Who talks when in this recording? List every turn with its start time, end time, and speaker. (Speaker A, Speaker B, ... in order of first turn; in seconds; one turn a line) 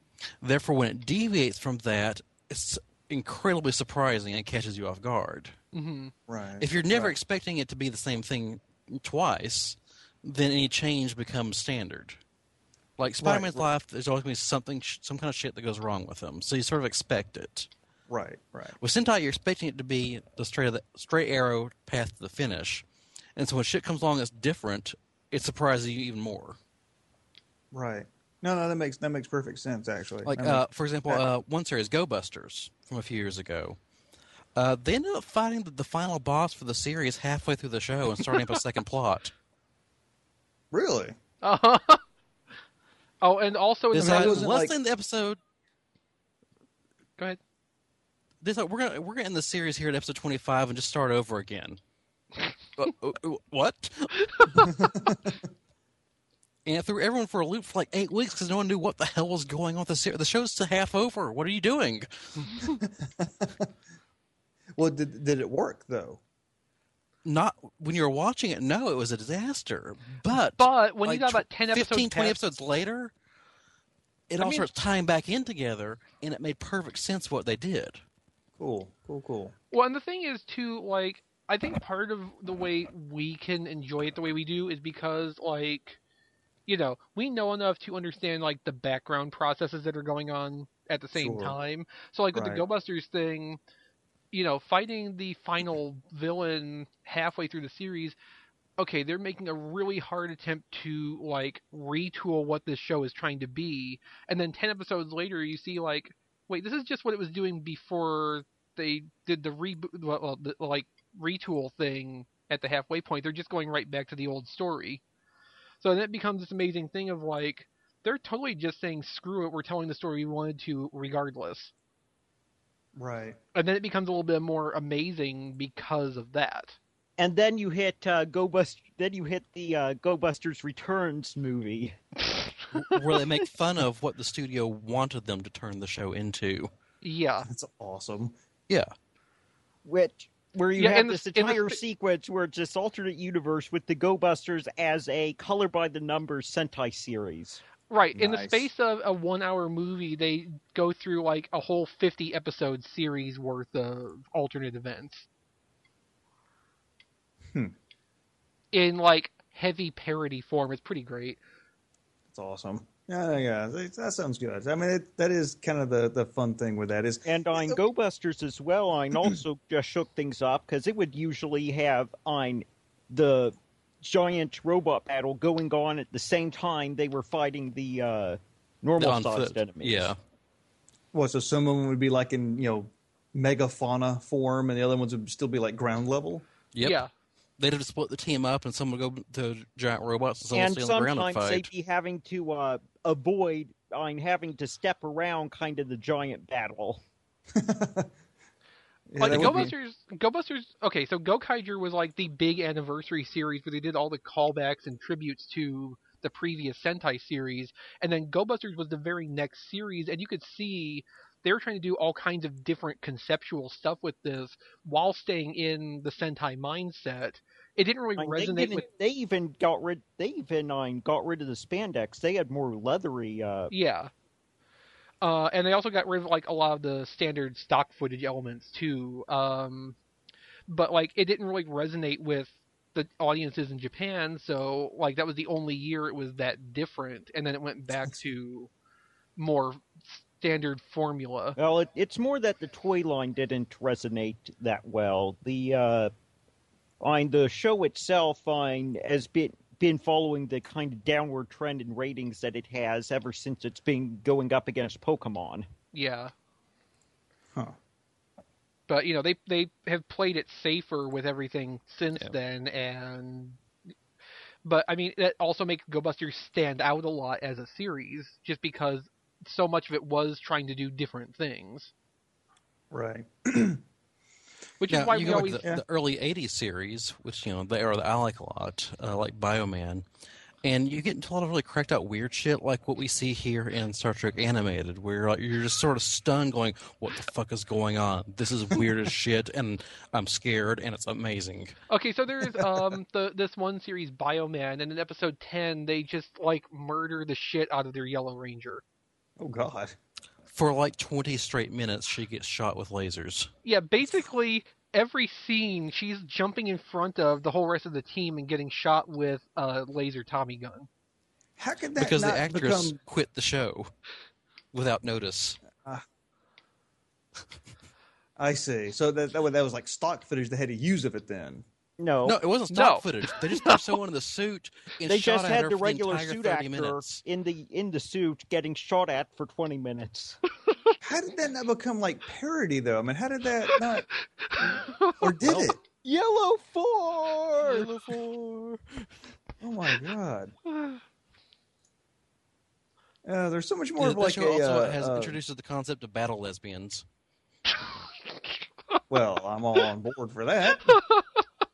Speaker A: 0.4-5.5
Speaker B: 5.7-6.1
Speaker C: 6.3-7.1
Speaker A: 6.6-12.2
Speaker A: 13.0-17.7
Speaker C: 13.2-13.7
Speaker C: 18.1-18.8
Speaker A: 18.8-22.8
Speaker A: 23.4-26.6
Speaker C: 27.7-31.2
Speaker A: 30.2-33.8
Speaker A: 34.5-39.3
Speaker C: 40.7-41.1
Speaker B: 41.4-42.0
Speaker B: 43.2-44.5
Speaker A: 43.9-45.4
Speaker C: 44.0-44.7
Speaker A: 48.4-51.8
Speaker A: 52.8-54.8
Speaker B: 54.4-54.7
Speaker C: 54.8-55.3
Speaker A: 56.6-62.7
Speaker C: 62.8-63.7
Speaker C: 64.8-66.2
Speaker A: 67.2-73.1
Speaker B: 70.6-72.4
Speaker A: 74.3-78.0
Speaker B: 74.4-74.7
Speaker C: 78.6-79.5
Speaker B: 79.7-86.0
Speaker B: 86.7-93.6
Speaker C: 91.1-91.6
Speaker C: 92.3-92.6
Speaker B: 94.3-98.2
Speaker B: 98.8-115.0
Speaker B: 115.8-121.7
Speaker C: 123.0-123.4
Speaker B: 123.5-126.8
Speaker D: 127.2-131.9
Speaker A: 132.7-136.7
Speaker B: 137.0-137.5
Speaker C: 137.5-138.3
Speaker D: 139.8-147.6
Speaker B: 140.8-141.8
Speaker B: 147.9-155.3
Speaker C: 148.1-148.7
Speaker B: 158.7-161.4
Speaker C: 162.3-167.8
Speaker D: 167.2-180.1
Speaker A: 179.0-180.2
Speaker C: 181.1-186.4
Speaker A: 186.7-187.0
Speaker B: 186.8-187.1
Speaker A: 187.6-191.7
Speaker D: 190.5-197.0
Speaker C: 197.5-198.1
Speaker C: 199.1-199.7
Speaker B: 199.2-218.8
Speaker A: 199.3-199.7
Speaker D: 218.2-223.7
Speaker B: 223.7-224.1
Speaker B: 225.2-230.0
Speaker B: 230.7-238.7
Speaker B: 239.4-241.6
Speaker D: 241.6-246.1
Speaker D: 247.0-255.7
Speaker B: 255.9-256.3
Speaker B: 258.9-263.6
Speaker B: 264.6-271.9
Speaker C: 272.9-273.8
Speaker B: 274.8-275.6
Speaker A: 274.9-280.0
Speaker A: 280.6-291.7
Speaker B: 291.9-298.8
Speaker C: 299.4-299.9
Speaker A: 300.5-303.5
Speaker B: 303.6-310.9
Speaker C: 311.6-312.9
Speaker A: 312.0-313.9
Speaker A: 314.7-315.6
Speaker C: 318.4-321.6
Speaker D: 322.0-322.4
Speaker A: 322.2-327.2
Speaker B: 322.7-323.8
Speaker D: 325.1-330.4
Speaker C: 331.0-334.1
Speaker B: 334.4-335.2
Speaker C: 335.2-335.8
Speaker D: 335.9-337.9
Speaker A: 337.6-338.8
Speaker C: 339.6-340.5
Speaker B: 340.7-341.0
Speaker C: 343.2-345.4
Speaker A: 344.0-347.0
Speaker C: 349.1-351.0
Speaker B: 350.9-351.4